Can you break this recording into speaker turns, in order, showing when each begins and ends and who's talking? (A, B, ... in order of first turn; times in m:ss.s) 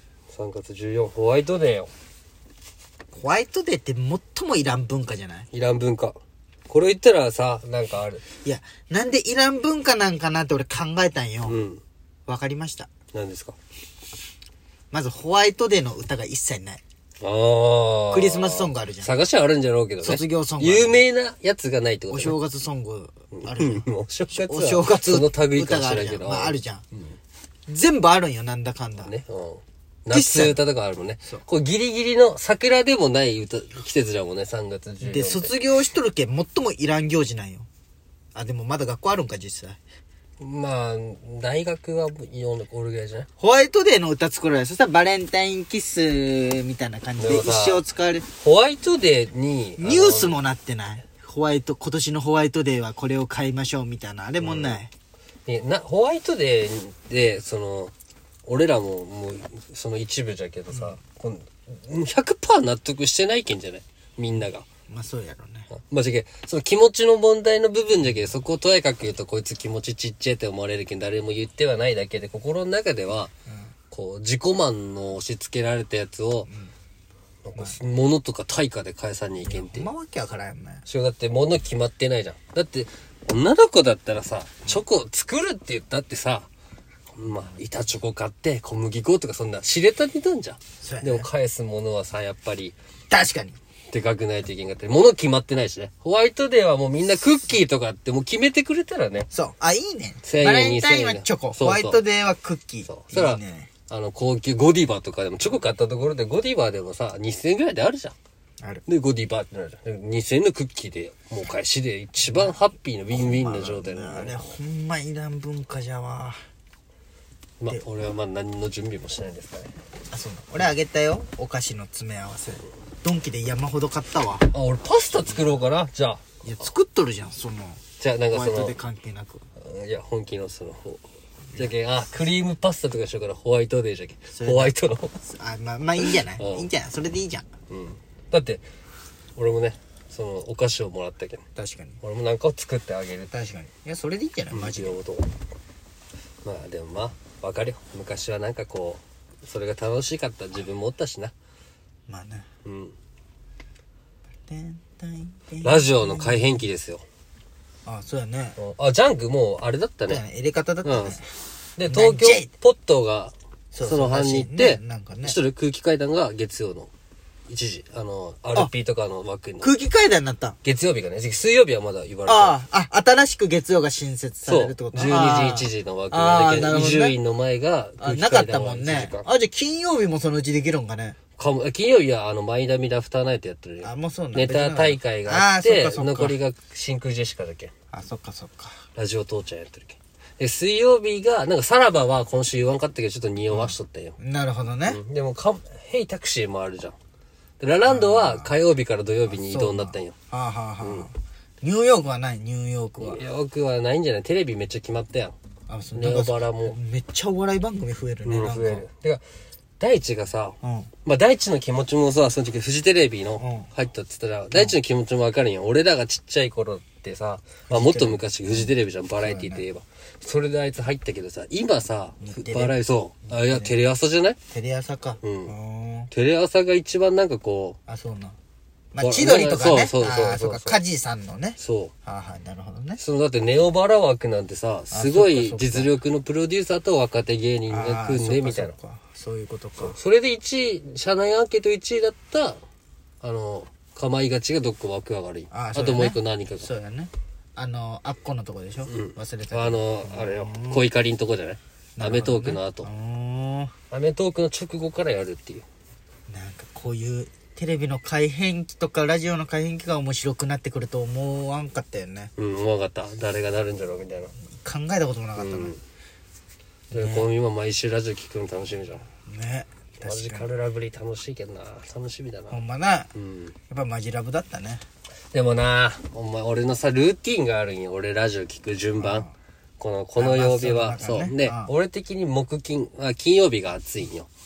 0:00.3-0:01.9 A
0:03.1-0:05.5 B
0:05.5-0:06.2 A
0:06.7-0:08.2 A
0:08.4-0:11.6 B
0:11.5-0:11.8 A
0:12.3-0:12.9 B
0:13.1-0:13.6 A
0:14.9-0:16.8 B
0:17.2-0:22.4 A
0:18.1-0:19.1 B
0:20.0-0:21.0 B
0:22.1-0:26.8 B
0:23.3-0:27.1 A
0:27.7-0:29.1 B
0:29.0-0:35.5 A
0:30.1-0:30.6 B
0:35.0-0:37.7 B
0:38.4-0:39.8 B
0:40.4-0:43.3 A
0:43.4-0:48.3 B
0:47.2-0:47.8 A
0:48.4-0:50.4 A
0:49.8-0:54.9 B
0:54.4-0:54.8 A
0:55.5-0:57.9 A
0:58.5-1:04.6 A
1:00.7-1:01.0 B
1:04.9-1:05.7 B
1:05.7-1:13.3 A
1:13.9-1:16.5 A
1:17.4-1:19.9 A
1:19.4-1:20.9 B
1:20.9-1:26.5 A
1:27.2-1:32.8 A
1:27.3-1:27.6 B
1:30.8-1:31.3 B
1:33.1-1:33.6 B
1:33.9-1:39.3 A
1:39.3-1:43.7 B
1:40.2-1:42.0 A
1:42.9-1:48.2 A
1:48.9-1:54.4 A
1:52.2-1:52.6 B
1:53.1-1:56.4 B
1:57.6-1:59.7 A
2:00.1-2:04.5 B
2:04.5-2:06.2 A
2:06.4-2:09.4 B
2:08.0-2:08.8 A
2:09.6-2:11.0 A
2:11.6-2:15.2 A
2:14.4-2:17.5 B
2:16.0-2:16.7 A
2:17.7-2:18.6 A
2:19.4-2:21.4 A
2:21.6-2:22.0 B
2:22.0-2:23.3 A
2:23.3-2:25.0 B
2:24.5-2:25.3 A
2:26.4-2:31.3 A
2:32.1-2:32.5 B
2:32.6-2:33.0 A
2:34.5-2:36.6 B
2:35.6-2:37.0 A
2:37.8-2:38.6 B
2:38.6-2:40.2 A
2:40.1-2:41.3 B
2:40.8-2:41.2 A
2:41.8-2:46.9 A
2:41.9-2:42.5 B
2:43.7-2:45.4 B
2:47.5-2:49.7 A
2:49.6-2:50.6 B
2:50.6-2:52.6 A
2:52.3-2:57.2 B
2:54.5-2:59.3 A
2:58.0-3:01.2 B
3:01.4-3:07.7 A
3:03.8-3:06.4 B
3:07.9-3:08.9 B
3:09.0-3:14.2 A
3:13.5-3:15.0 B
3:14.9-3:17.0 A
3:17.6-3:20.1 A
3:17.9-3:18.6 B
3:19.3-3:23.2 B
3:20.8-3:21.1 A
3:23.0-3:25.4 A
3:25.7-3:28.9 B
3:26.0-3:26.8 A
3:28.2-3:29.2 A
3:29.8-3:44.4 A
3:30.6-3:30.9 B
3:33.4-3:33.7 B
3:37.7-3:39.7 B
3:42.2-3:42.8 B
3:43.3-3:43.7 B
3:44.5-3:46.1 B
3:45.2-3:45.5 A
3:46.1-3:47.8 A
3:47.9-3:48.4 B
3:48.9-3:53.0 B
3:49.0-3:50.8 A
3:51.6-3:51.9 A
3:53.0-3:58.7 A
3:54.9-3:55.9 B
3:57.7-4:00.0 B
3:59.8-4:02.6 A
4:03.2-4:06.7 A
4:05.5-4:10.9 B
4:08.9-4:12.9 A
4:12.0-4:13.7 B
4:13.9-4:15.7 A
4:16.3-4:22.3 B
4:22.4-4:24.3 A
4:24.6-4:25.7 B
4:25.4-4:25.8 A
4:26.9-4:27.3 B
4:26.9-4:29.0 A
4:29.3-4:30.5 B
4:30.0-4:32.6 A
4:32.5-4:33.1 B
4:33.2-4:33.5 A
4:33.7-4:34.8 B
4:35.3-4:39.3 A
4:39.0-4:39.3 B
4:39.8-4:44.3 A
4:40.2-4:41.7 B